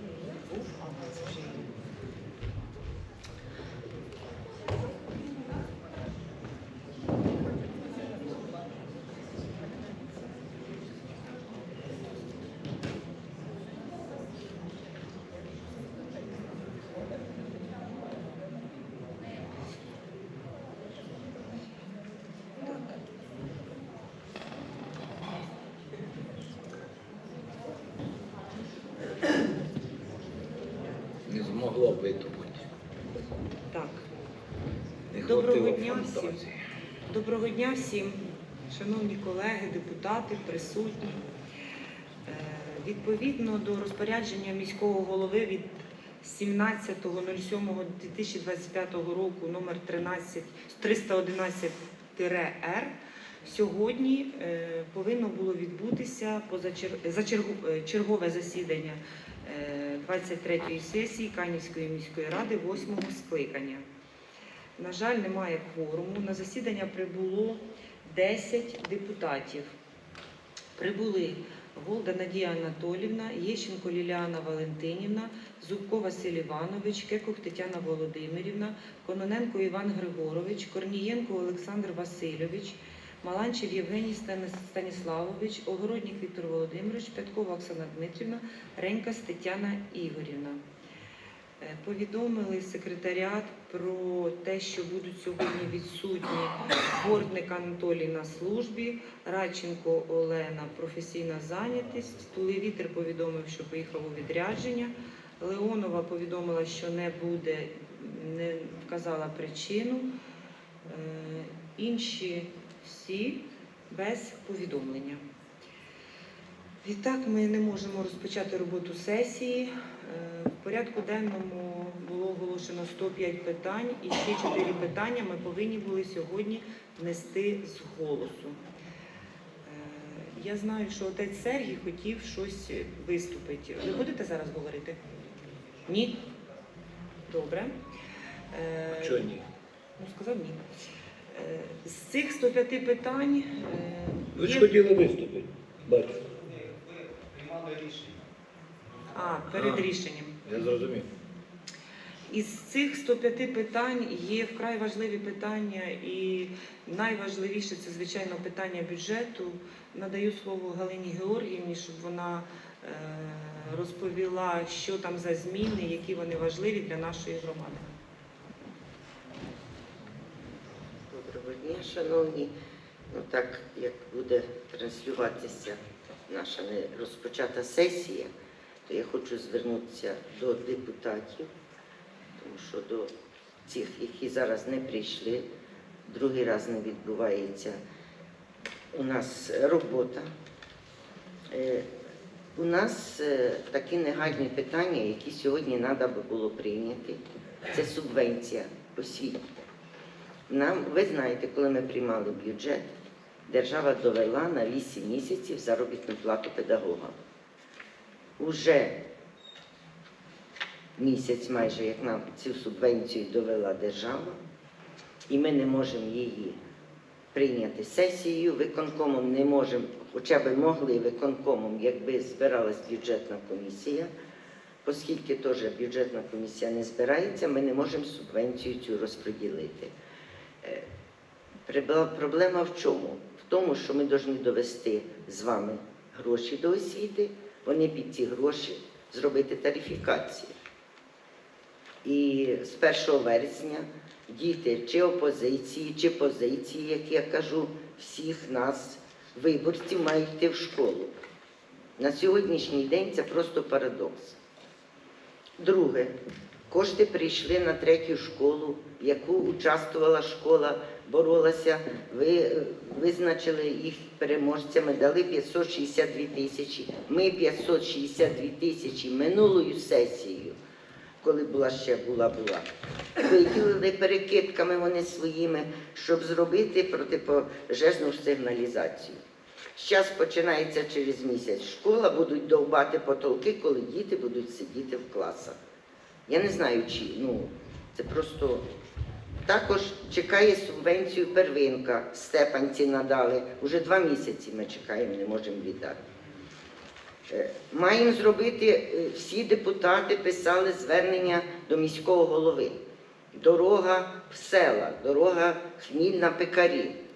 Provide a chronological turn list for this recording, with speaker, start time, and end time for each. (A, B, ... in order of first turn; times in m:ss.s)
0:00.4-0:01.7 A
0:22.7-0:22.9 A
0:31.3-0:32.7 B
0:33.7-0:34.0 A
0:35.1-0:36.6 B
0:35.2-0:36.4 A
0:37.1-0:41.2 A
0:42.3-0:45.7 A
0:46.2-1:03.8 A
1:04.8-1:09.7 A
1:10.8-1:30.6 A
1:31.6-1:50.1 A
1:50.9-1:55.2 A
1:56.8-2:08.6 A
2:09.6-2:15.0 A
2:15.8-2:16.2 A
2:17.3-2:17.8 A
2:18.5-2:19.3 A
2:18.9-2:19.4 B
2:20.0-2:20.6 A
2:21.3-2:24.8 A
2:24.4-2:26.3 B
2:29.1-2:30.4 A
2:29.5-2:29.9 B
2:30.4-2:31.1 B
2:32.3-2:47.9 A
2:51.1-2:52.5 C
2:53.1-2:58.3 C
2:58.9-3:01.5 C
3:02.4-3:03.1 C
3:03.7-3:05.5 C
3:06.1-3:07.8 C
3:08.9-3:10.3 C
3:11.5-3:11.9 C
3:12.6-3:19.4 C
3:20.5-3:22.9 C
3:23.5-3:27.2 C
3:28.4-3:29.0 C
3:31.0-3:34.4 C
3:35.3-3:36.6 C
3:37.3-3:44.1 C
3:44.8-3:49.9 C
3:51.7-4:00.6 C
4:02.0-4:11.1 C
4:12.0-4:14.4 C
4:15.6-4:16.1 C
4:16.7-4:30.6 C
4:31.2-4:32.7 C
4:33.2-4:39.2 C
4:39.8-4:45.6 C
4:46.3-4:48.7 C
4:49.5-4:56.0 C
4:57.3-5:02.8 C
5:03.3-5:07.0 C